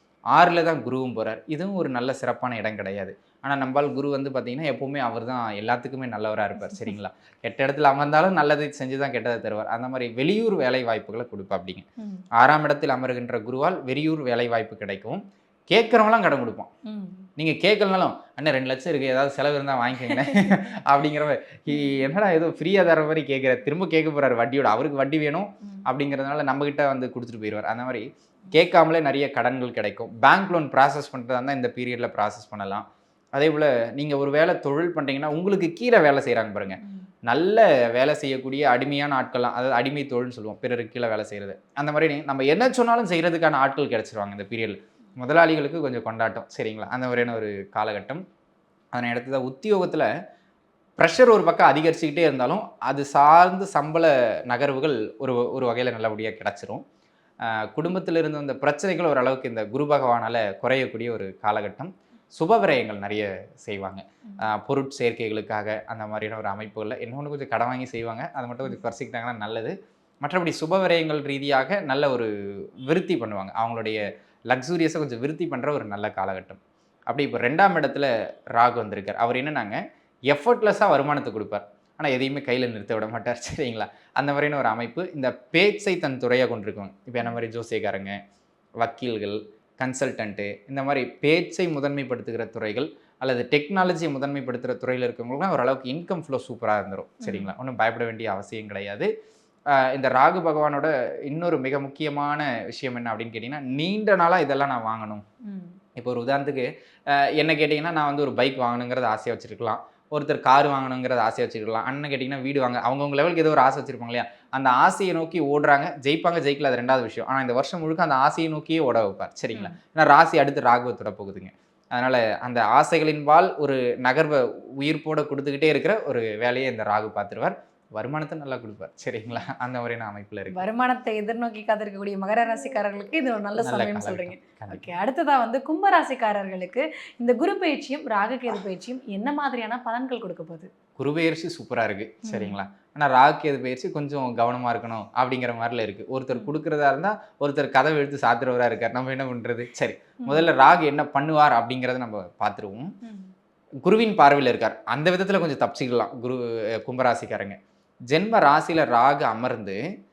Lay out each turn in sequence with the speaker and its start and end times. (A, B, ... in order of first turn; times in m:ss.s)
0:00.3-0:11.8 A
0:12.4-0:16.7 A
0:16.8-0:17.2 B
0:17.4-0:32.8 A
0:20.0-0:20.6 B
0:21.7-0:22.0 B
0:33.4-0:48.2 A
0:36.8-0:37.1 B
0:48.9-0:50.1 A
0:51.0-0:56.8 A
0:57.4-1:12.3 A
1:12.8-1:28.2 A
1:28.8-1:39.1 A
1:37.2-1:37.5 B
1:39.7-1:45.2 A
1:45.4-1:45.8 B
1:46.0-2:10.6 A
2:10.5-2:20.7 B
2:13.6-2:14.9 A
2:21.0-2:32.9 A
2:22.2-2:22.6 B
2:30.2-2:30.5 B
2:33.0-2:33.3 B
2:33.8-2:37.6 A
2:38.1-2:39.8 A